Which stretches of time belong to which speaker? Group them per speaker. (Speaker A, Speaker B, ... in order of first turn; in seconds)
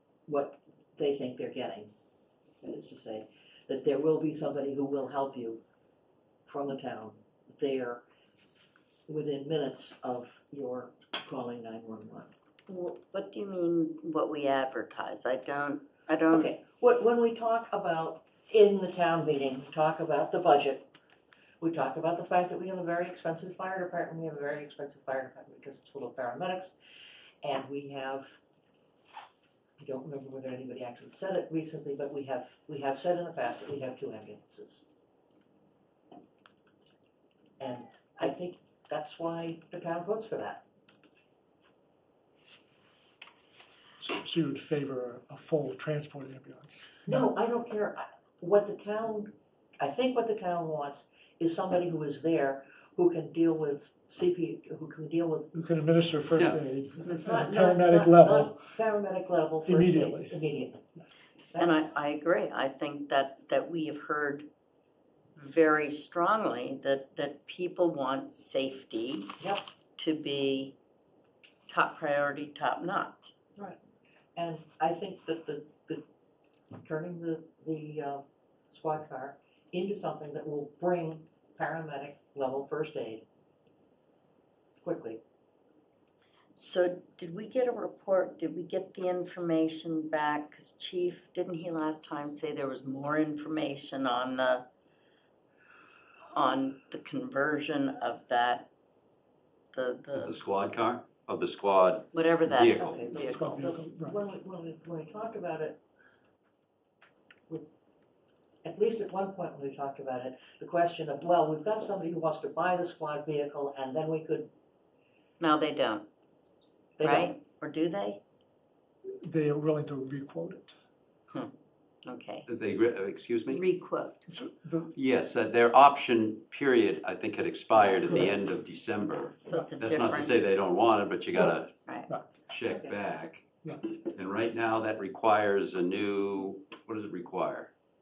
Speaker A: 0.3-1.9, 2.6-5.6, 6.5-8.0, 9.1-12.3, 16.3-20.9, 21.6-26.7, 27.4-28.3, 29.8-34.8, 37.6-40.6, 47.0-55.5, 57.2-60.9, 61.5-62.0, 74.4-76.0, 76.8-83.3, 84.8-85.2, 102.8-105.8, 108.6-114.5, 117.0-117.3, 132.7-133.0
Speaker B: 12.7-16.5, 61.6-64.5, 65.4-69.4, 70.0-70.8, 71.7-73.2, 86.6-94.7, 96.3-98.7, 99.7-100.4, 102.1-103.7, 115.4-116.1, 117.0-118.2, 122.0-122.5, 123.5-124.3, 129.3-130.4, 131.8-132.1
Speaker C: 44.0-47.3, 55.5-58.7, 59.6-60.4, 103.1-104.2, 119.1-120.8, 124.3-124.9
Speaker D: 100.2-103.0, 122.5-123.6, 124.9-131.7, 132.5-137.7